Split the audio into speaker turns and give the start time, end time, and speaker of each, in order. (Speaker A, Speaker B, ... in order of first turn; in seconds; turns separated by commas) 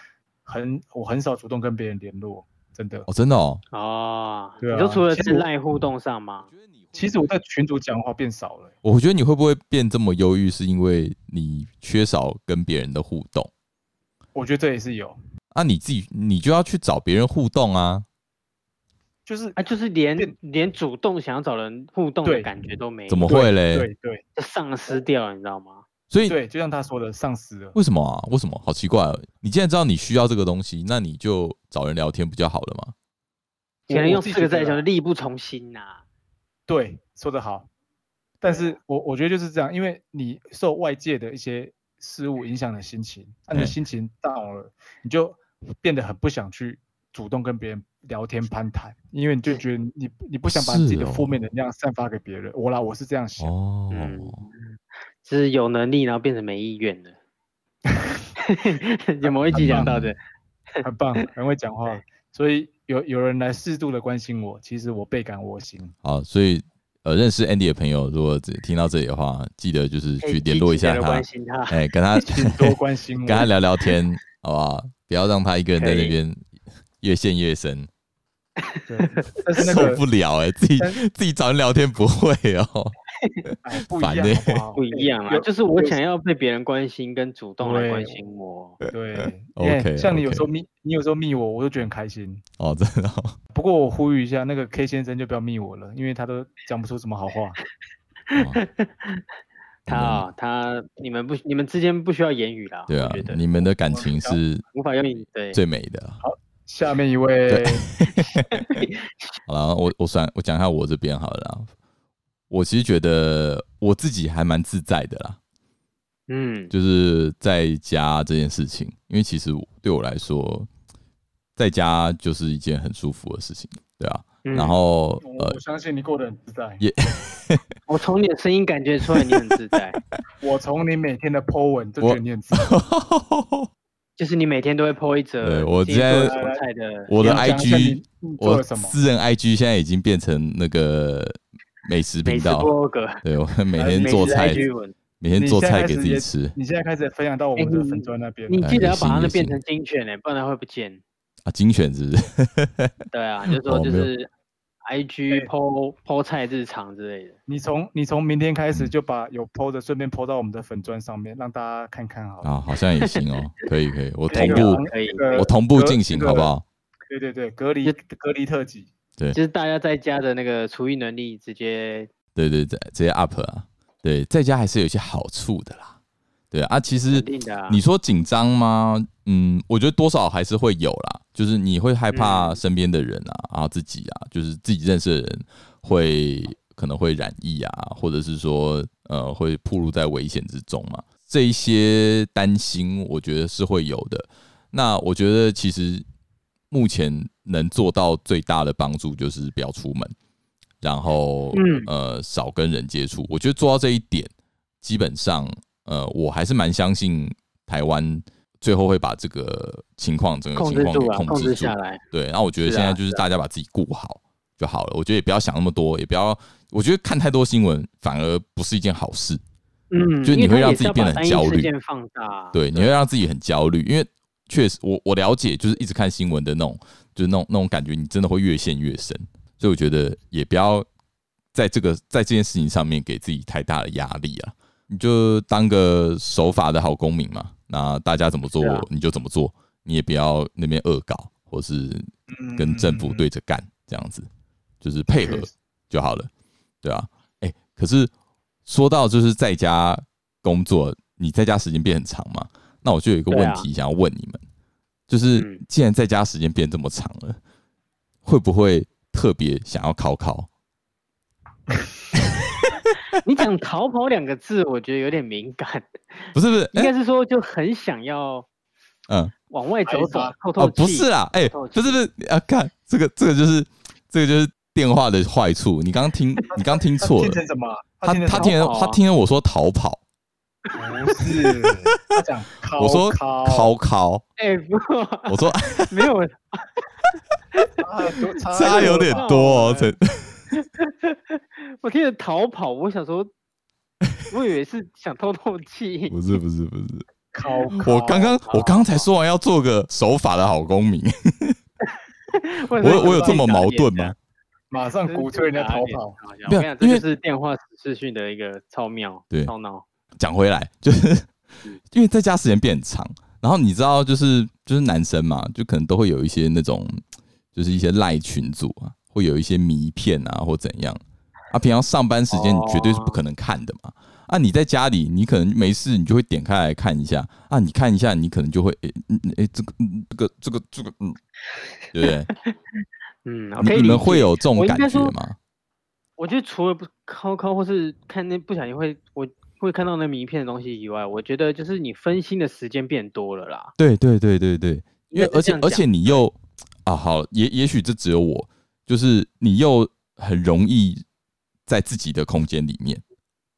Speaker A: 0.5-3.1, Speaker B: 3.1-3.6, Speaker C: 3.7-6.5, Speaker A: 4.6-5.5, Speaker B: 6.5-7.3, Speaker A: 6.9-8.7, Speaker B: 8.8-13.5, Speaker A: 14.3-15.2, Speaker B: 15.5-18.1, Speaker A: 19.2-19.6, Speaker C: 19.6-23.4, Speaker A: 22.2-22.5, Speaker B: 23.1-23.9, Speaker A: 23.2-24.2, Speaker C: 24.4-25.8, Speaker B: 26.1-26.4, Speaker A: 26.2-27.8, Speaker B: 27.8-32.9, Speaker A: 33.9-34.9, Speaker C: 33.9-36.0, Speaker A: 36.7-37.7, Speaker A: 38.4-53.5, Speaker C: 38.5-38.7, Speaker B: 50.5-51.4, Speaker B: 53.4-54.4, Speaker C: 53.9-57.1, Speaker A: 57.9-58.3, Speaker C: 58.4-60.2, Speaker A: 59.2-59.9, Speaker B: 59.5-60.1, Speaker A: 60.8-65.9, Speaker B: 66.0-76.4, Speaker C: 70.2-71.8, Speaker A: 72.2-73.5, Speaker C: 75.8-76.1, Speaker B: 77.0-77.9, Speaker C: 78.6-79.3, Speaker A: 78.9-80.0, Speaker B: 79.6-82.9, Speaker B: 83.4-84.6, Speaker A: 83.6-86.0, Speaker C: 84.8-88.8, Speaker A: 87.6-88.2, Speaker A: 88.9-92.4, Speaker B: 89.2-90.5, Speaker B: 92.6-93.4, Speaker A: 93.5-97.6, Speaker C: 98.3-99.2, Speaker B: 98.3-98.6, Speaker B: 99.9-100.2, Speaker C: 99.9-103.4, Speaker B: 102.9-104.6, Speaker A: 103.9-104.4, Speaker C: 104.7-105.6, Speaker B: 105.5-106.2, Speaker A: 106.2-107.9, Speaker B: 107.5-108.8, Speaker C: 108.0-109.3, Speaker B: 109.5-111.7, Speaker B: 112.5-115.4, Speaker C: 116.3-116.7, Speaker B: 116.7-120.7, Speaker B: 121.6-125.6, Speaker C: 124.4-124.8, Speaker A: 125.2-126.8, Speaker B: 126.8-127.6, Speaker C: 127.9-130.0, Speaker A: 130.4-132.7, Speaker B: 132.0-133.7, Speaker C: 134.2-137.7, Speaker B: 135.4-136.3, Speaker A: 136.2-136.6, Speaker B: 137.1-142.7, Speaker A: 137.2-139.0, Speaker C: 142.2-143.2, Speaker B: 143.2-144.7, Speaker A: 143.8-144.7, Speaker C: 144.0-144.9, Speaker B: 145.2-146.5, Speaker A: 145.4-148.6, Speaker C: 147.6-151.0, Speaker B: 148.6-149.6, Speaker B: 151.4-152.9, Speaker C: 153.1-154.3, Speaker B: 153.5-154.1, Speaker C: 154.9-157.4, Speaker A: 157.5-162.5, Speaker B: 162.4-164.8, Speaker A: 164.3-166.5, Speaker C: 164.3-165.5, Speaker B: 165.4-166.6, Speaker A: 167.1-168.9, Speaker C: 169.3-172.1, Speaker B: 172.3-175.9, Speaker B: 176.5-196.0, Speaker C: 177.1-177.8, Speaker C: 182.1-182.6, Speaker B: 196.7-200.1, Speaker B: 200.8-204.3, Speaker C: 201.5-201.9, Speaker B: 204.8-219.4, Speaker C: 210.6-212.0, Speaker C: 212.6-213.2, Speaker C: 219.9-222.9, Speaker B: 220.2-221.7, Speaker B: 222.5-230.9, Speaker B: 231.5-244.3, Speaker C: 238.6-238.9, Speaker A: 242.3-243.2, Speaker B: 244.8-246.3, Speaker A: 245.2-245.5, Speaker B: 246.8-248.1, Speaker B: 248.7-254.4, Speaker C: 253.3-253.7, Speaker B: 255.1-257.4, Speaker C: 255.4-255.6, Speaker B: 258.2-260.5, Speaker B: 262.2-262.8, Speaker C: 263.2-268.5, Speaker B: 266.4-266.9, Speaker B: 269.1-269.3, Speaker C: 269.5-272.0, Speaker A: 269.9-270.4, Speaker B: 270.6-277.4, Speaker A: 276.5-278.6, Speaker B: 278.0-280.0, Speaker C: 278.4-279.0, Speaker C: 280.7-281.0, Speaker A: 280.7-283.7, Speaker B: 282.8-284.2, Speaker C: 284.4-286.7, Speaker B: 285.3-285.9, Speaker C: 287.5-289.8, Speaker A: 287.8-289.9, Speaker B: 288.5-290.6, Speaker C: 290.5-293.3, Speaker C: 294.3-296.1, Speaker B: 296.1-297.0, Speaker A: 297.3-298.4, Speaker B: 297.8-301.6, Speaker C: 298.4-299.0, Speaker C: 302.3-304.1, Speaker B: 302.8-304.1, Speaker A: 302.8-303.5, Speaker A: 304.7-306.2, Speaker C: 305.1-309.9, Speaker B: 306.5-307.0, Speaker B: 310.2-311.3, Speaker B: 311.9-317.0, Speaker B: 317.5-331.2, Speaker C: 322.3-323.2, Speaker B: 331.9-332.3, Speaker C: 333.2-335.1, Speaker B: 333.6-335.4, Speaker C: 336.2-343.7, Speaker B: 343.8-351.0, Speaker C: 345.1-346.2, Speaker B: 351.7-353.0